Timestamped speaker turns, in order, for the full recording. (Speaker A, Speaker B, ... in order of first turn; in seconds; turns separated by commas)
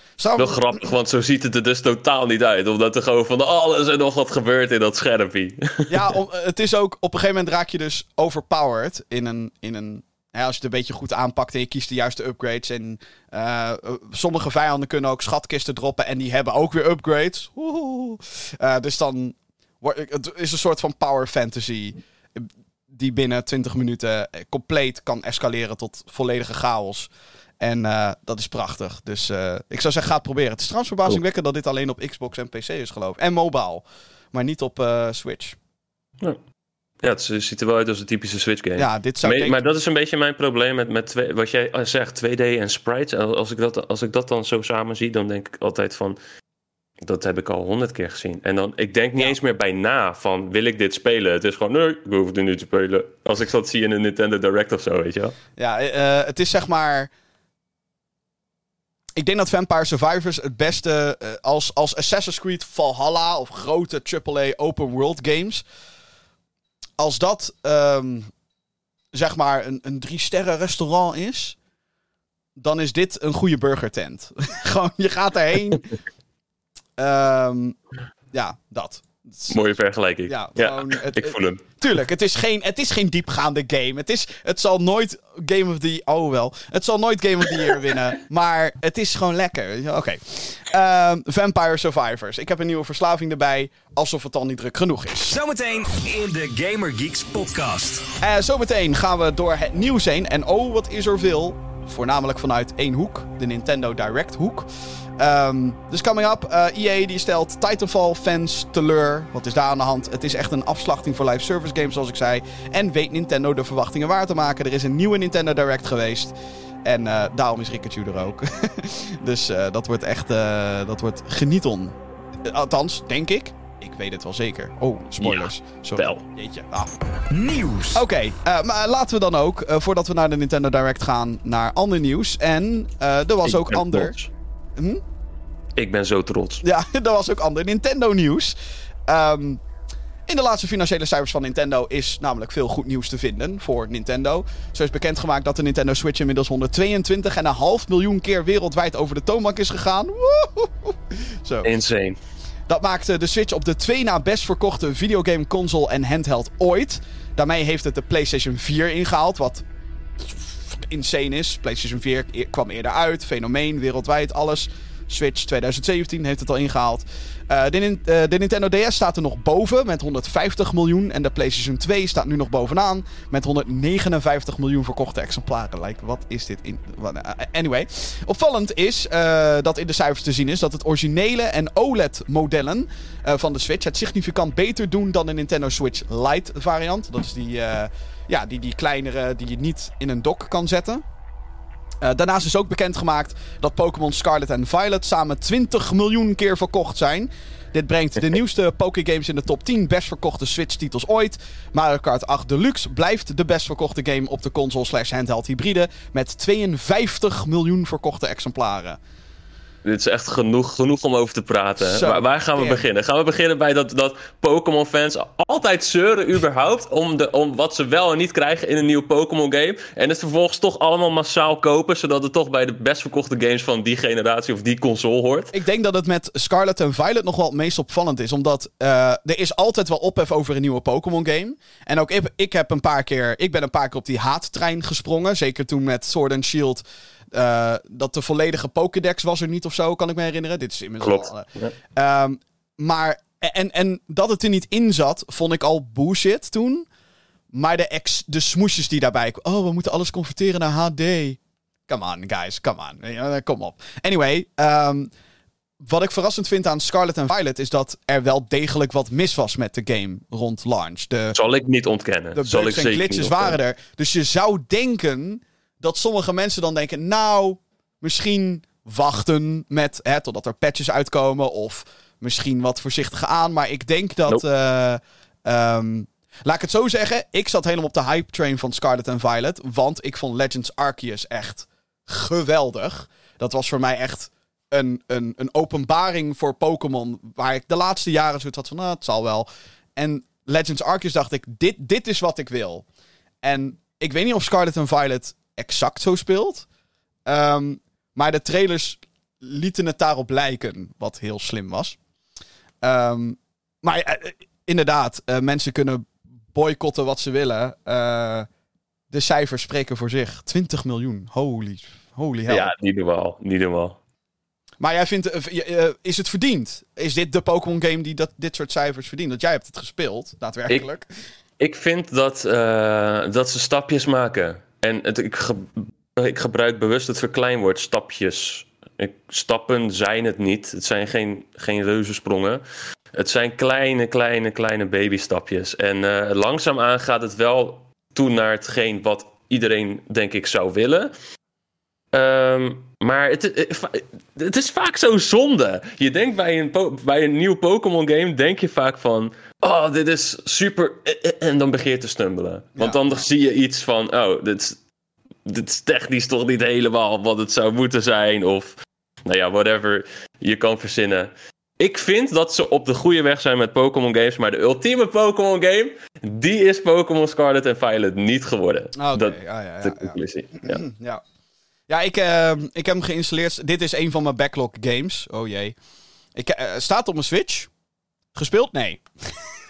Speaker A: 0.2-0.7, Speaker B: 0.4-6.1, Speaker A: 5.9-35.6, Speaker B: 37.0-46.2, Speaker A: 38.8-39.6, Speaker B: 47.1-55.4, Speaker A: 55.6-57.1, Speaker A: 59.2-65.6, Speaker A: 67.0-68.3, Speaker A: 69.1-71.6, Speaker A: 72.6-75.9, Speaker A: 77.0-77.8, Speaker A: 78.3-79.5, Speaker B: 79.5-81.6, Speaker A: 80.3-95.4, Speaker C: 95.3-98.1, Speaker A: 98.2-104.7, Speaker A: 105.2-116.3, Speaker A: 116.8-126.9, Speaker B: 125.2-126.2, Speaker C: 127.3-128.0, Speaker A: 127.9-134.2, Speaker B: 133.4-134.3, Speaker A: 134.8-135.0, Speaker B: 135.8-136.6, Speaker A: 136.6-138.6, Speaker A: 139.1-139.6, Speaker A: 140.3-151.7, Speaker B: 151.6-152.2, Speaker A: 152.7-159.6, Speaker A: 160.2-191.0, Speaker A: 192.0-209.0, Speaker B: 209.8-225.5, Speaker A: 211.8-212.9, Speaker A: 225.5-246.9, Speaker B: 241.0-241.7, Speaker A: 247.5-255.1, Speaker A: 255.8-261.4, Speaker B: 261.3-263.6, Speaker A: 262.4-292.9, Speaker A: 293.4-296.7, Speaker A: 297.3-302.0, Speaker A: 302.8-308.5, Speaker A: 309.1-312.7, Speaker B: 312.5-314.0, Speaker A: 314.8-321.1, Speaker B: 321.6-332.6, Speaker B: 333.1-341.1, Speaker B: 342.1-354.8, Speaker A: 352.8-353.2, Speaker B: 355.4-370.8, Speaker A: 369.0-371.2, Speaker A: 371.9-375.8, Speaker A: 376.4-377.7, Speaker A: 378.4-379.5